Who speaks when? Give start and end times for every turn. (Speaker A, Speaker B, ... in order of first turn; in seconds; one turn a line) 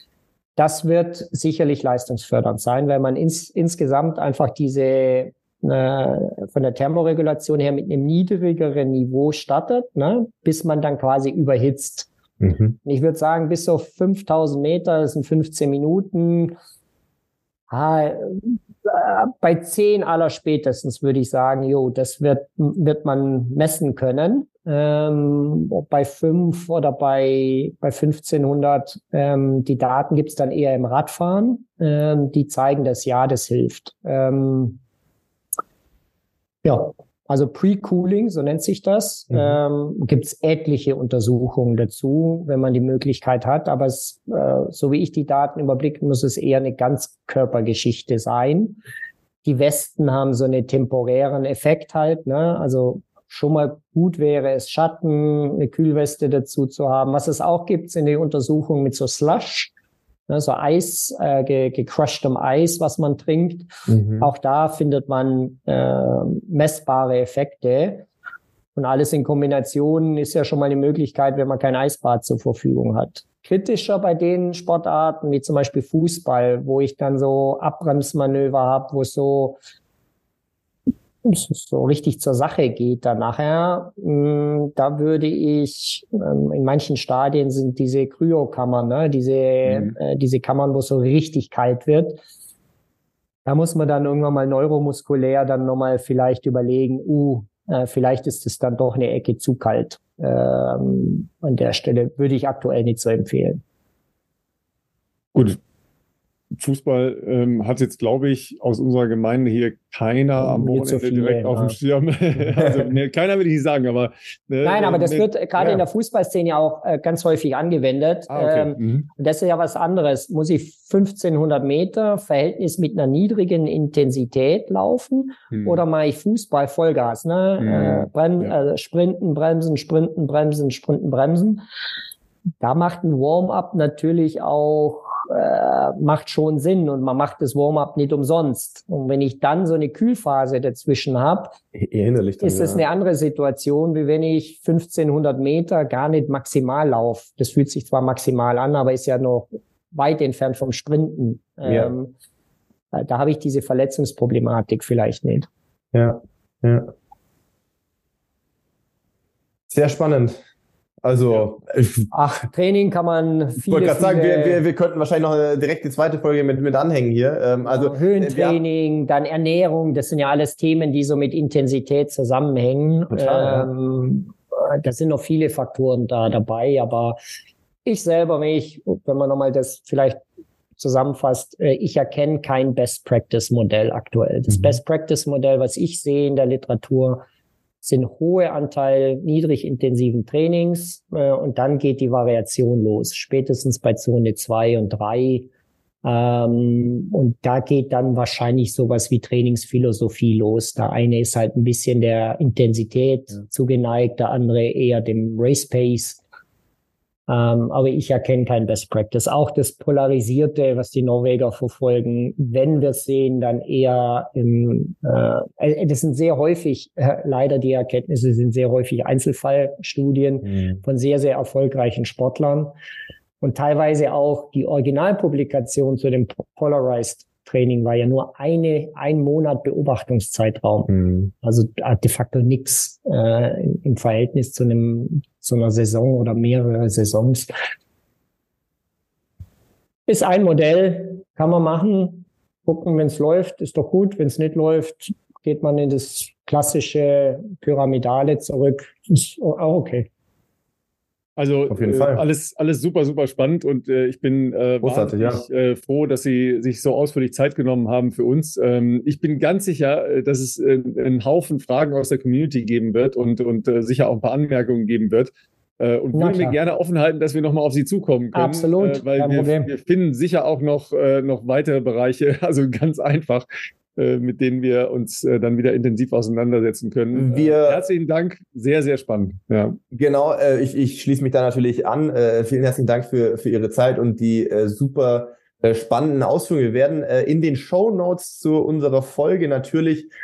Speaker A: 0.6-12.1
Speaker B: 12.4-12.8
Speaker A: 12.8-16.6
Speaker A: 17.7-34.8
Speaker A: 36.6-48.8
Speaker A: 49.4-59.7
Speaker A: 60.3-68.0
Speaker B: 63.9-64.3
Speaker A: 68.7-79.6
Speaker A: 81.2-92.2
Speaker A: 93.4-103.6
Speaker C: 105.3-105.6
Speaker C: 106.6-115.8
Speaker A: 110.4-111.8
Speaker A: 114.6-131.6
Speaker C: 118.3-119.1
Speaker C: 125.5-125.8
Speaker C: 127.6-128.5
Speaker A: 132.6-141.6
Speaker B: 141.8-142.8
Speaker A: 142.4-152.1
Speaker B: 151.6-151.9
Speaker A: 152.9-155.5
Speaker B: 155.9-156.9
Speaker B: 159.7-160.4
Speaker B: 161.0-162.1
Speaker A: 162.1-164.6
Speaker B: 163.6-168.6
Speaker A: 167.7-177.2
Speaker B: 173.1-173.7
Speaker A: 177.8-180.2
Speaker A: 180.8-187.2
Speaker A: 187.8-195.5
Speaker A: 196.0-206.2
Speaker A: 207.3-222.7
Speaker B: 220.5-220.8
Speaker A: 223.4-237.5
Speaker B: 230.9-231.3
Speaker A: 240.1-250.1
Speaker C: 251.4-279.8
Speaker B: 251.7-252.2
Speaker B: 254.8-255.4
Speaker A: 266.1-266.6
Speaker A: 268.3-269.7
Speaker B: 277.1-277.9
Speaker B: 279.9-290.1